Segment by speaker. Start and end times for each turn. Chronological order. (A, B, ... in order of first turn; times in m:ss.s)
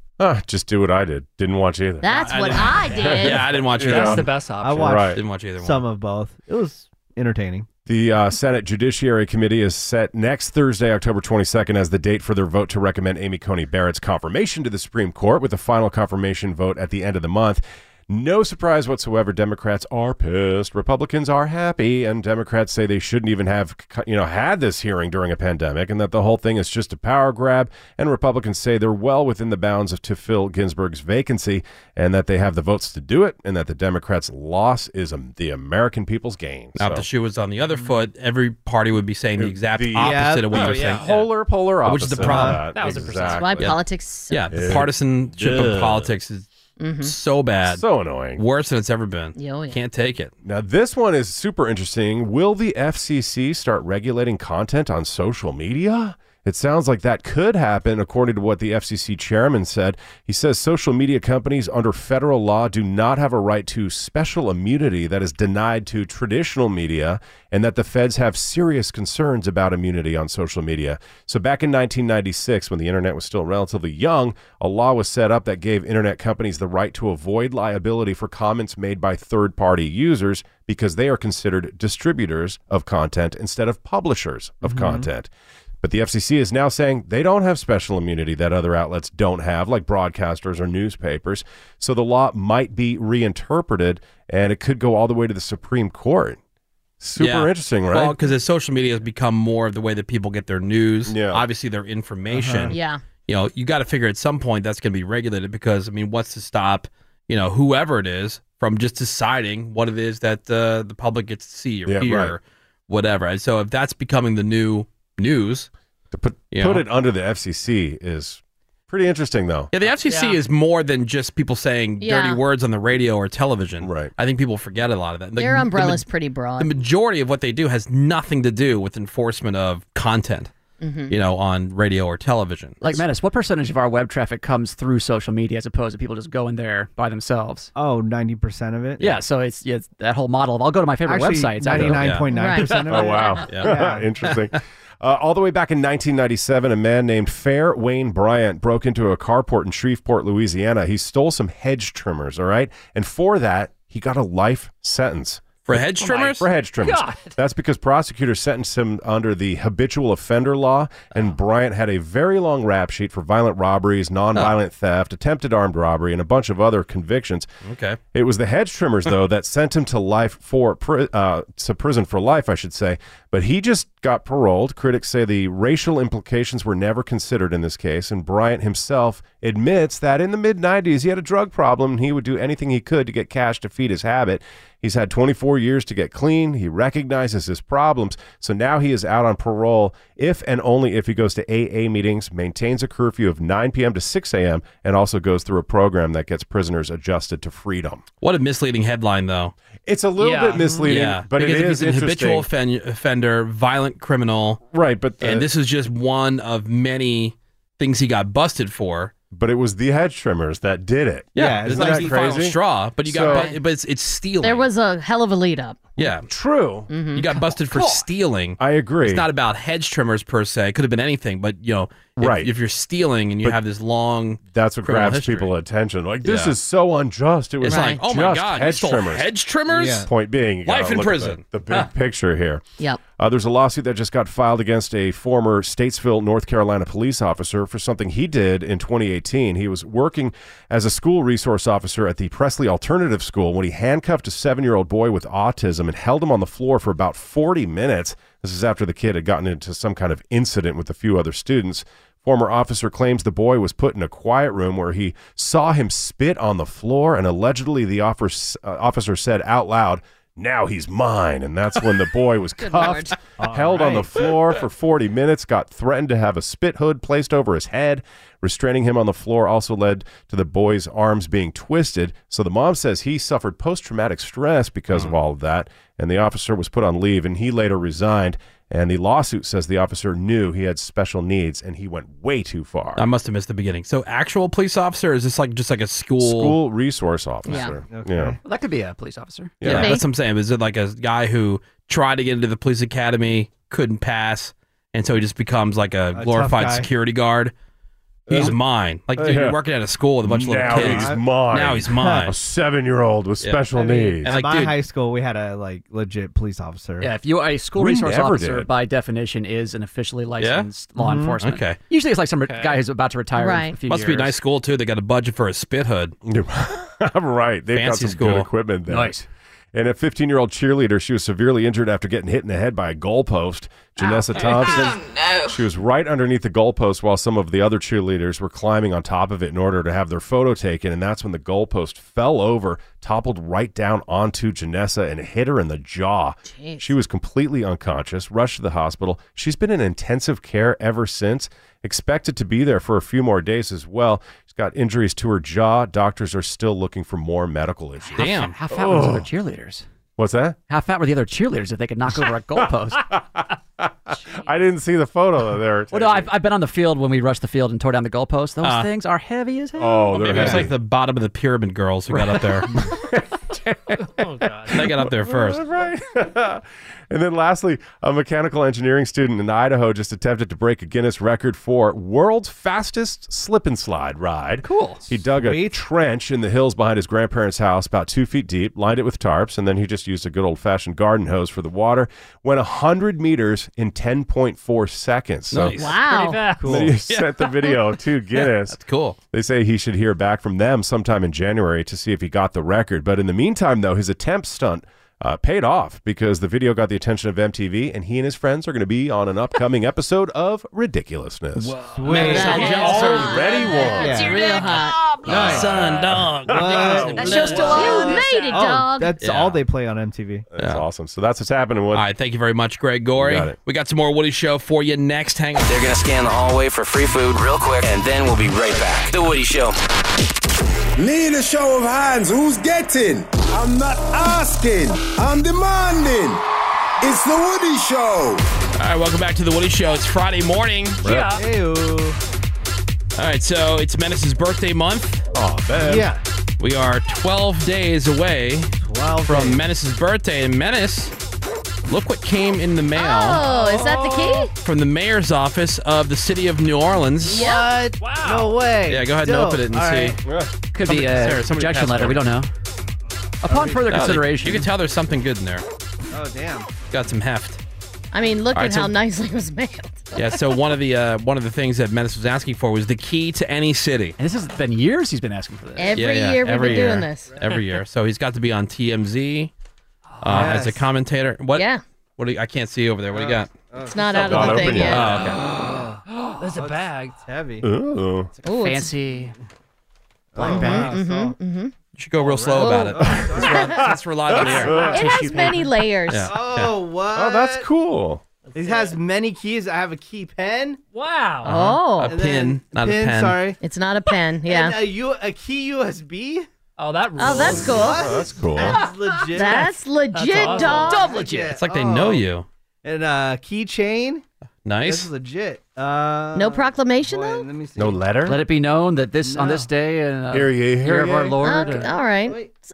0:00.2-0:02.3 A
0:02.0-0:03.5 B
0:02.1-0:04.3 C
0:02.9-0:04.3 A
0:03.7-0:05.1 D
0:04.6-0:07.7 E
0:04.8-0:05.2 A
0:05.0-0:05.8 C
0:07.9-0:37.1 A
0:36.8-0:41.1 C
0:39.4-0:43.8 A
0:40.0-0:40.7 E
0:40.5-0:41.3 D
0:41.8-0:42.7 C
0:42.2-0:42.6 E
0:42.7-0:43.6 D
0:43.2-0:44.7 B
0:44.3-0:46.5 C
0:44.5-0:46.1 A
0:46.8-0:47.1 B
0:47.0-0:47.8 C
0:47.7-0:48.4 A
0:48.4-0:50.3 C
0:49.4-0:49.8 B
0:50.4-1:25.3 A
1:24.6-1:25.1 E
1:25.8-1:36.4 A
1:37.0-1:38.2 A
1:37.2-1:55.7 C
1:41.1-1:41.4 A
1:42.3-1:42.7 E
1:42.7-1:43.0 B
1:51.9-1:52.4 A
1:56.1-1:59.7 A
1:56.5-1:56.8 C
1:59.7-2:06.0 C
2:00.0-2:00.4 D
2:02.0-2:02.4 B
2:03.8-2:04.1 A
2:05.4-2:06.7 B
2:06.6-2:10.5 C
2:10.8-2:11.1 B
2:11.1-2:13.0 C
2:12.8-2:17.7 F
2:17.8-2:19.2 E
2:19.0-2:22.3 F
2:21.1-2:24.1 E
2:21.9-2:22.3 C
2:22.3-2:23.4 B
2:22.9-2:47.5 A
2:35.7-2:36.5 C
2:36.0-2:37.4 D
2:47.6-2:48.0 C
2:48.1-3:18.0 A
3:18.2-3:19.6 C
3:19.9-3:22.5 A
3:20.2-3:20.8 D
3:20.6-3:20.9 E
3:20.8-3:24.6 C
3:24.7-3:25.5 A
3:25.2-3:29.1 C
3:29.3-3:33.5 A
3:31.4-3:32.4 E
3:31.4-3:34.7 C
3:33.3-3:33.6 B
3:34.4-3:35.8 B
3:36.0-3:36.3 C
3:36.0-3:36.9 A
3:36.9-3:37.4 B
3:37.1-3:45.5 C
3:38.6-3:39.3 A
3:42.2-3:42.5 A
3:44.5-3:52.6 A
3:46.2-3:46.5 C
3:47.6-3:50.1 C
3:47.7-3:48.0 B
3:49.7-3:50.1 E
3:50.6-3:51.4 C
3:53.2-4:43.0 A
4:22.6-4:23.2 B
4:23.4-4:24.2 E
4:43.0-4:46.6 C
4:46.2-4:48.4 A
4:47.5-4:47.8 B
4:47.9-4:48.4 E
4:48.4-4:49.6 F
4:49.6-4:50.0 A
4:49.6-4:57.5 C
4:49.7-4:50.0 B
4:56.2-4:56.9 E
4:58.3-4:58.6 A
4:58.3-5:02.3 C
4:59.2-4:59.6 A
5:00.2-5:04.4 A
5:00.7-5:01.2 E
5:03.4-5:03.7 C
5:03.8-5:07.1 E
5:04.2-5:04.8 C
5:07.0-5:14.4 F
5:07.8-5:08.7 A
5:10.4-5:10.7 C
5:11.0-5:11.4 E
5:11.4-5:11.8 C
5:12.4-5:12.8 D
5:13.4-5:13.8 B
5:13.9-5:16.2 C
5:16.2-5:19.2 A
5:17.7-5:18.5 C
5:18.9-5:19.2 F
5:19.7-5:49.3 A
5:36.5-5:36.9 B
5:48.1-5:49.8 F
5:48.2-5:48.6 C
5:50.2-5:50.6 A
5:50.7-5:53.0 F
5:52.6-5:56.3 A
5:55.9-6:00.6 F
5:58.6-5:58.9 C
5:59.8-6:00.7 A
6:00.1-6:02.7 C
6:02.1-6:02.7 F
6:03.9-6:04.9 D
6:04.7-6:25.8 A
6:04.7-6:05.6 C
6:14.6-6:15.0 F
6:15.4-6:15.8 E
6:25.5-6:26.0 C
6:25.8-6:26.5 B
6:25.9-6:26.8 D
6:26.6-6:26.9 E
6:26.6-6:28.8 A
6:27.1-6:29.2 C
6:29.3-6:41.8 A
6:41.6-6:43.5 C
6:41.9-6:44.5 E
6:42.1-6:45.0 B
6:42.5-6:44.3 A
6:45.2-6:45.8 E
6:45.3-6:47.8 C
6:45.3-6:47.8 A
6:46.5-6:50.4 E
6:47.2-6:48.6 D
6:47.2-6:49.1 B
6:49.2-6:49.6 C
6:50.5-6:52.1 A
6:50.6-6:50.8 C
6:51.9-6:55.7 C
6:53.2-6:53.6 A
6:55.7-6:59.8 G
7:01.0-7:06.4 H
7:07.0-7:08.4 H
7:08.8-7:11.0 C
7:11.0-7:11.4 D
7:11.0-7:11.3 A
7:11.4-7:12.2 E
7:13.2-7:15.2 C
7:15.3-7:16.1 A
7:15.8-7:16.2 E
7:16.6-7:18.8 C
7:18.8-7:19.6 E
7:19.3-7:21.1 C
7:21.9-7:23.4 C
7:23.0-7:24.5 B
7:23.4-7:24.2 D
7:23.8-7:24.3 E
7:24.6-7:27.5 C
7:27.3-7:30.2 E
7:27.3-7:27.7 B
7:28.0-7:28.6 D
7:28.9-7:30.2 C
7:30.3-7:30.5 A
7:30.7-7:32.5 F
7:30.8-7:32.3 C
7:33.4-7:34.7 F
7:33.5-7:33.9 E
7:33.9-7:35.6 C
7:36.1-7:36.7 E
7:36.9-7:37.6 C
7:38.1-7:40.1 B
7:38.5-7:39.0 C
7:40.2-7:44.2 C
7:44.2-7:46.0 F
7:45.8-7:47.4 B
7:46.0-7:49.5 C
7:50.2-7:50.9 E
7:50.2-7:53.5 C
7:51.6-7:51.8 B
7:53.1-7:56.0 E
7:53.9-7:55.2 B
7:54.1-7:55.2 A
7:54.7-7:55.4 C
7:56.1-7:57.2 D
7:56.5-7:57.7 E
7:57.6-7:58.3 A
7:58.4-7:58.9 B
7:58.5-7:59.3 F
8:00.4-8:01.4 E
8:00.4-8:01.0 F
8:00.4-8:01.7 B
8:02.0-8:04.9 C
8:02.4-8:03.8 E
8:02.5-8:03.8 B
8:03.0-8:05.0 A
8:03.4-8:05.8 D
8:04.9-8:06.3 B
8:06.1-8:06.7 C
8:06.3-8:07.7 E
8:07.1-8:08.2 A
8:08.5-8:09.0 D
8:08.6-8:10.8 E
8:10.9-8:11.7 D
8:11.4-8:12.2 B
8:11.4-8:13.4 C
8:12.1-8:13.6 E
8:13.6-8:14.8 B
8:14.4-8:16.5 E
8:16.8-8:18.0 D
8:17.2-8:18.8 B
8:17.2-8:19.7 E
8:17.7-8:18.8 A
8:19.3-8:21.2 B
8:20.1-8:21.4 D
8:20.4-8:22.2 E
8:21.4-8:22.5 C
8:22.8-8:24.2 E
8:24.6-8:25.1 C
8:24.8-8:28.0 E
8:26.4-8:27.5 B
8:27.8-8:28.4 A
8:28.2-8:31.9 F
8:29.2-8:29.7 E
8:30.3-8:31.4 A
8:31.4-8:32.4 B
8:31.7-8:32.5 E